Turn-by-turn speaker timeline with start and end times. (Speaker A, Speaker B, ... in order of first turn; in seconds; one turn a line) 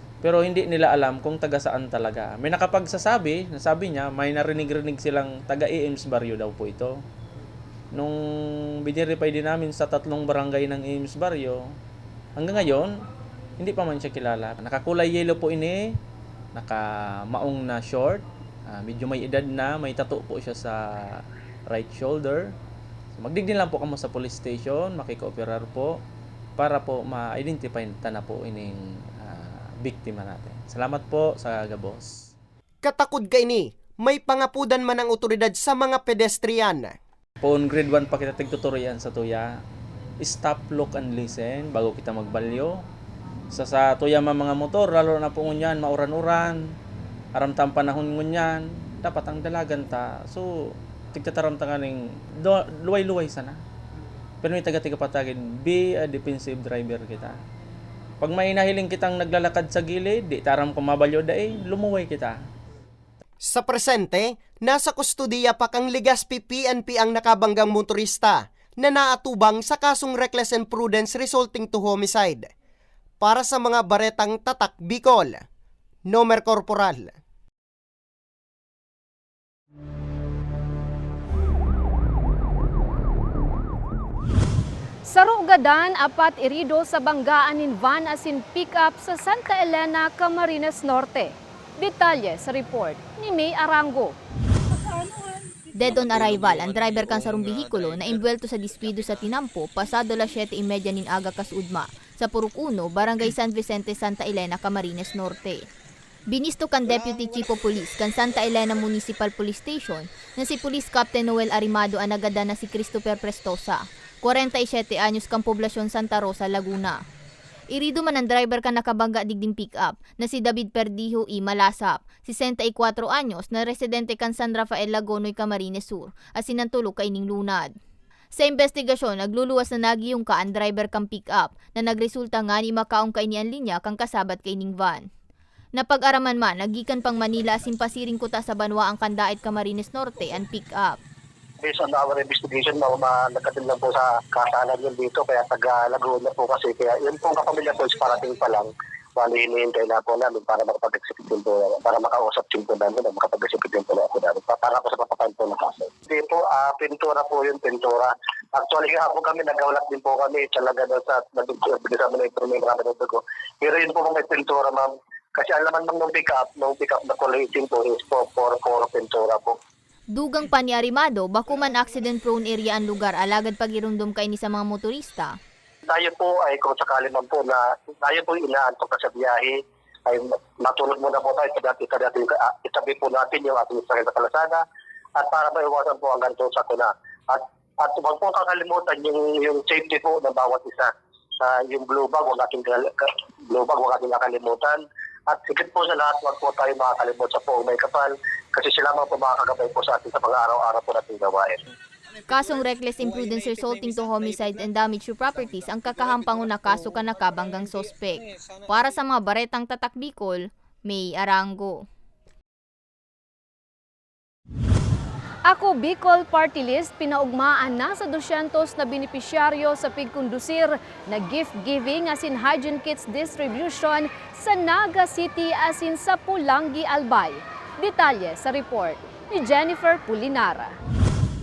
Speaker A: 0.2-7.0
Speaker A: 8.8-11.7
Speaker A: 12.4-13.0
Speaker A: 13.6-16.0
Speaker A: 16.6-22.5
Speaker A: 23.1-26.0
Speaker A: 26.6-32.1
Speaker B: 32.8-36.9
Speaker A: 37.4-39.6
Speaker A: 40.2-42.8
Speaker A: 43.5-46.7
Speaker A: 47.4-53.6
Speaker A: 54.4-57.4
Speaker A: 58.2-62.4
Speaker B: 63.4-72.5
Speaker B: 73.2-75.4
Speaker B: 76.1-77.1
Speaker C: 85.1-94.2
Speaker D: 95.7-105.7
Speaker D: 106.3-117.0
Speaker D: 117.7-127.7
Speaker D: 128.3-135.1
Speaker D: 135.7-141.0
Speaker E: 141.6-169.6
Speaker D: 170.1-175.4
Speaker E: 175.9-184.6
Speaker E: 185.2-201.6
Speaker D: 202.3-211.8
Speaker C: 215.5-230.8